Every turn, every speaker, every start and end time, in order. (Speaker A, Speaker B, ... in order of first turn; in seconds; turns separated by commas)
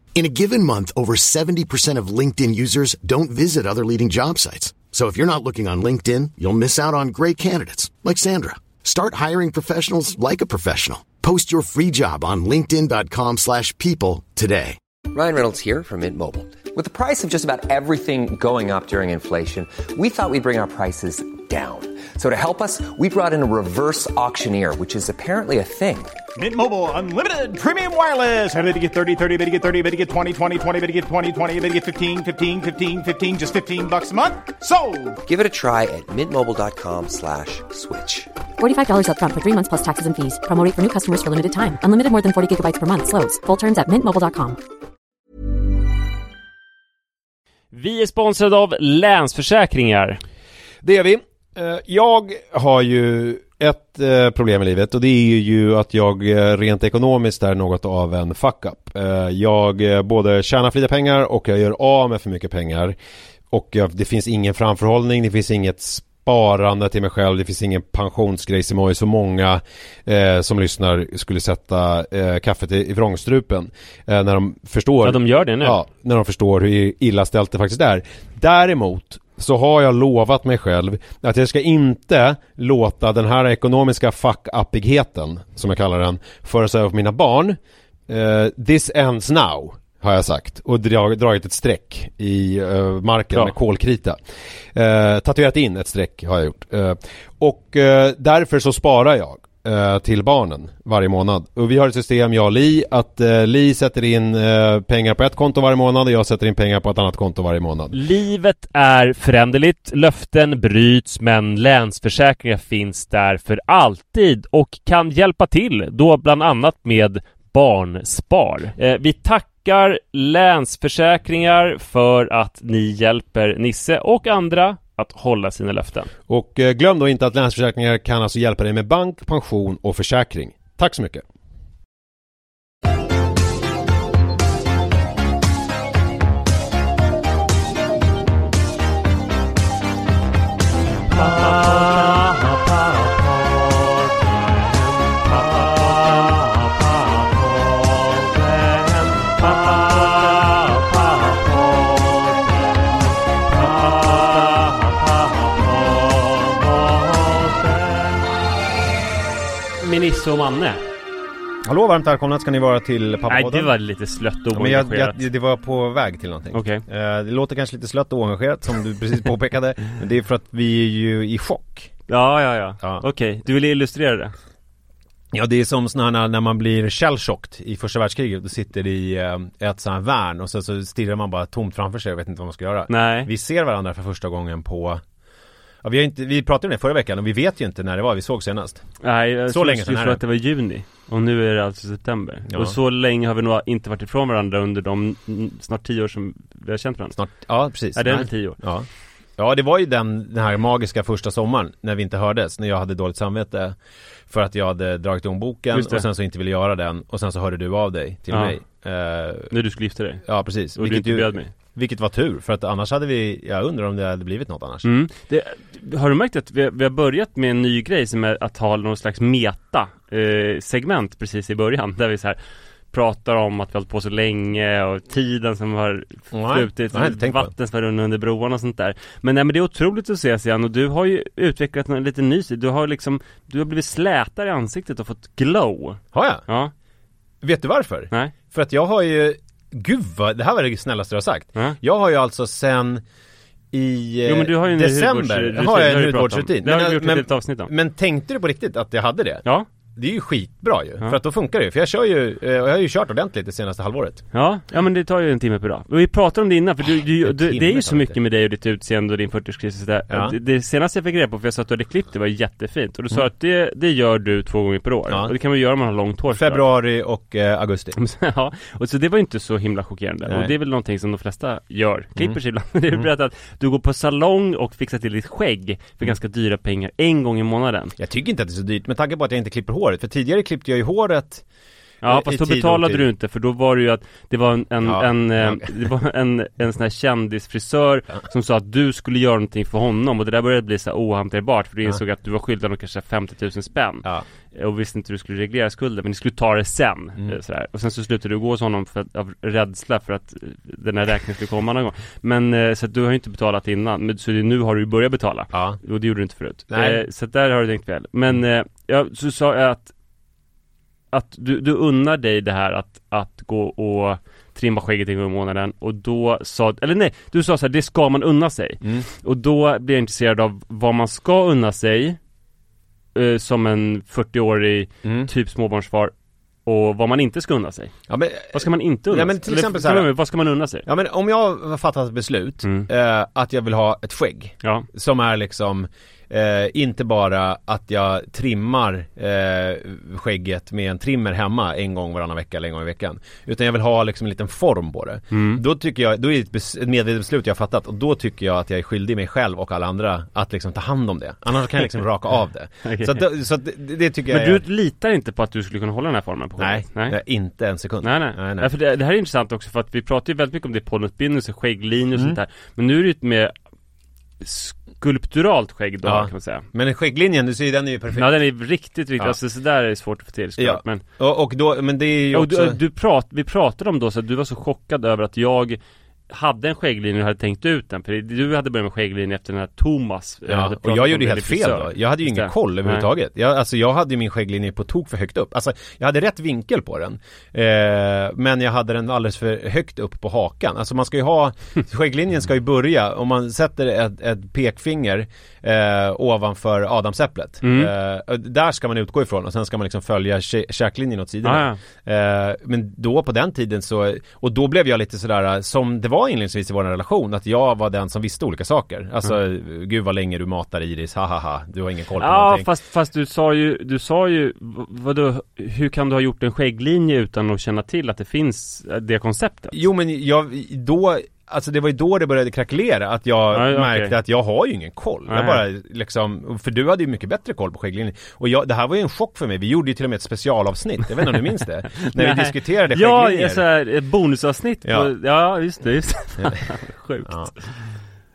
Speaker A: 0.1-14.8, Speaker B: 15.1-26.2, Speaker C: 26.4-35.2, Speaker B: 35.2-38.3, Speaker D: 38.6-44.6, Speaker E: 47.7-50.2, Speaker F: 50.8-63.0, Speaker F: 63.5-94.2, Speaker E: 75.0-75.8, Speaker F: 94.7-108.0, Speaker E: 107.9-126.1, Speaker F: 126.3-131.2, Speaker E: 141.1-152.6, Speaker E: 153.5-158.2, Speaker E: 159.8-160.8, Speaker F: 161.7-163.7, Speaker E: 163.3-165.2, Speaker F: 164.5-171.9, Speaker E: 166.5-166.8, Speaker E: 172.1-174.3, Speaker F: 172.8-173.1, Speaker F: 175.3-185.0, Speaker E: 182.9-183.3, Speaker F: 185.8-188.9, Speaker E: 189.0-197.2, Speaker F: 189.5-190.2, Speaker F: 192.5-192.8, Speaker F: 197.2-203.8, Speaker E: 197.9-198.6, Speaker F: 204.3-209.5, Speaker E: 205.7-206.1, Speaker E: 208.3-208.6, Speaker E: 209.5-211.5, Speaker F: 210.2-214.9, Speaker E: 214.8-222.4, Speaker E: 222.9-236.7, Speaker F: 226.3-227.5, Speaker F: 236.1-236.4, Speaker F: 237.4-243.0, Speaker F: 243.7-249.4, Speaker E: 244.3-247.7, Speaker F: 250.0-254.2, Speaker E: 254.3-266.6, Speaker F: 257.2-258.2, Speaker F: 260.1-260.4, Speaker F: 266.3-268.0, Speaker E: 268.0-277.9, Speaker F: 270.3-270.5, Speaker F: 278.0-281.4, Speaker E: 282.0-309.9, Speaker F: 282.1-283.1, Speaker F: 284.9-285.7, Speaker F: 305.5-305.8, Speaker F: 306.7-307.0, Speaker E: 311.1-322.2, Speaker F: 318.8-319.1, Speaker E: 323.1-326.1, Speaker F: 325.0-325.3, Speaker E: 326.7-327.9, Speaker F: 328.1-330.1, Speaker E: 328.5-330.9, Speaker F: 330.9-354.6, Speaker E: 332.6-332.9, Speaker E: 345.3-345.6, Speaker E: 352.9-353.3, Speaker E: 354.3-357.2, Speaker F: 356.6-358.7, Speaker E: 358.0-363.5, Speaker E: 364.4-366.7, Speaker F: 366.0-368.3, Speaker E: 368.2-371.0, Speaker F: 370.6-372.8, Speaker E: 372.3-375.8, Speaker E: 376.3-383.1, Speaker F: 380.5-412.7, Speaker E: 397.6-397.9, Speaker E: 401.4-401.8, Speaker E: 412.2-419.8, Speaker F: 419.7-433.6, Speaker E: 423.5-424.2, Speaker E: 425.3-425.6, Speaker E: 432.0-437.8, Speaker F: 434.8-435.1, Speaker F: 437.3-437.5